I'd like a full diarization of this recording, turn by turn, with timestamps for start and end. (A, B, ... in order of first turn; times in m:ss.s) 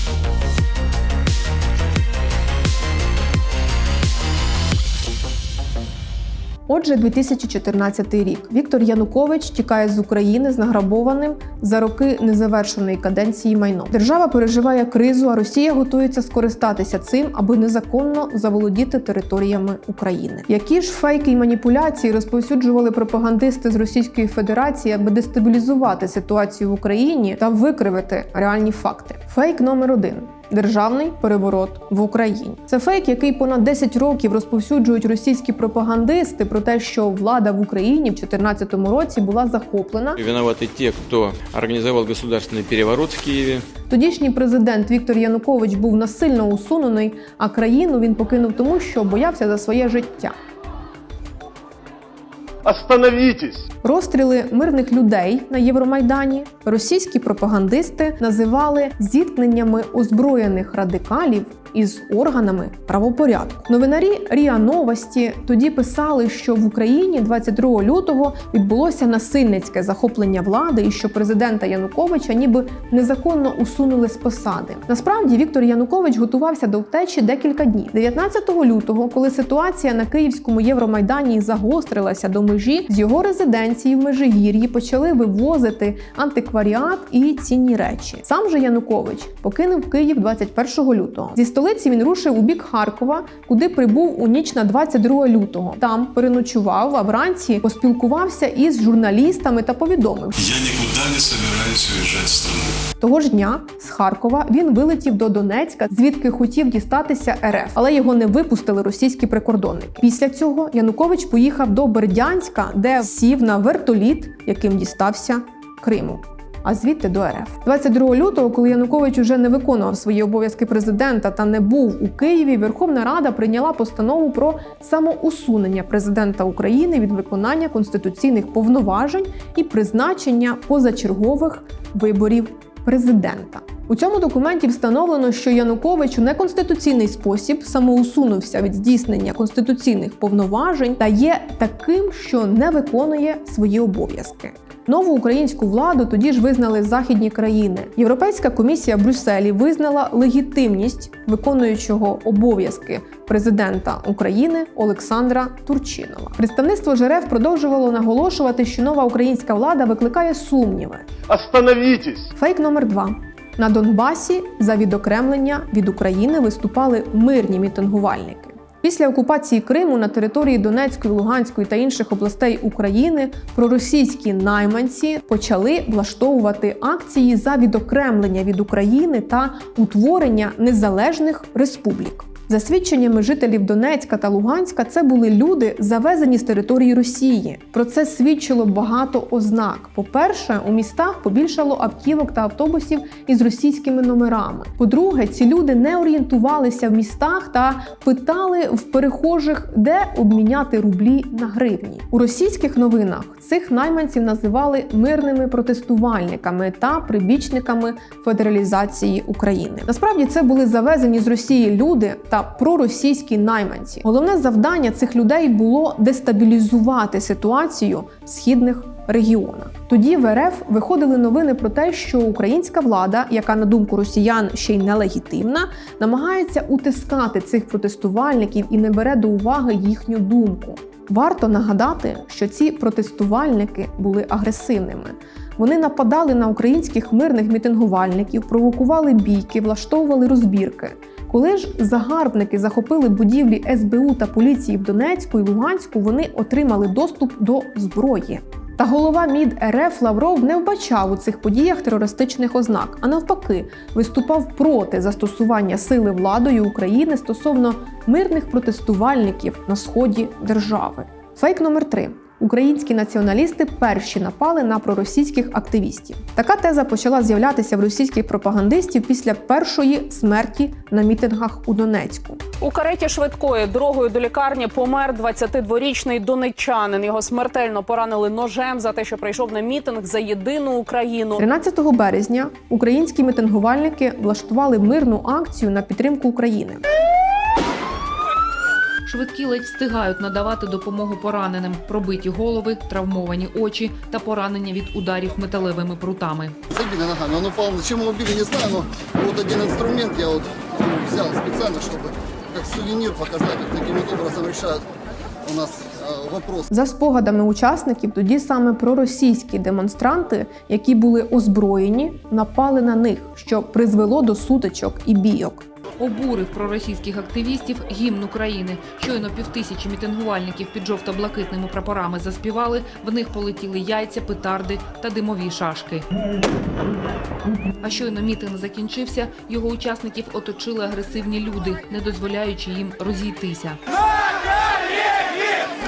0:06.7-0:40.2 A
0:40.4-0:43.6 B
0:43.9-0:50.4 A
0:52.6-0:53.6 C
0:53.8-1:40.4 A
1:40.4-1:42.7 D
1:43.0-2:41.1 A
2:41.3-2:42.3 C
2:42.4-4:32.4 A
4:32.6-4:41.4 E
4:41.4-4:46.8 A
4:49.1-4:56.6 F
4:56.7-5:04.8 G
5:05.4-5:06.7 G
5:06.7-5:15.7 A
5:16.0-5:26.1 F
5:27.8-5:33.8 F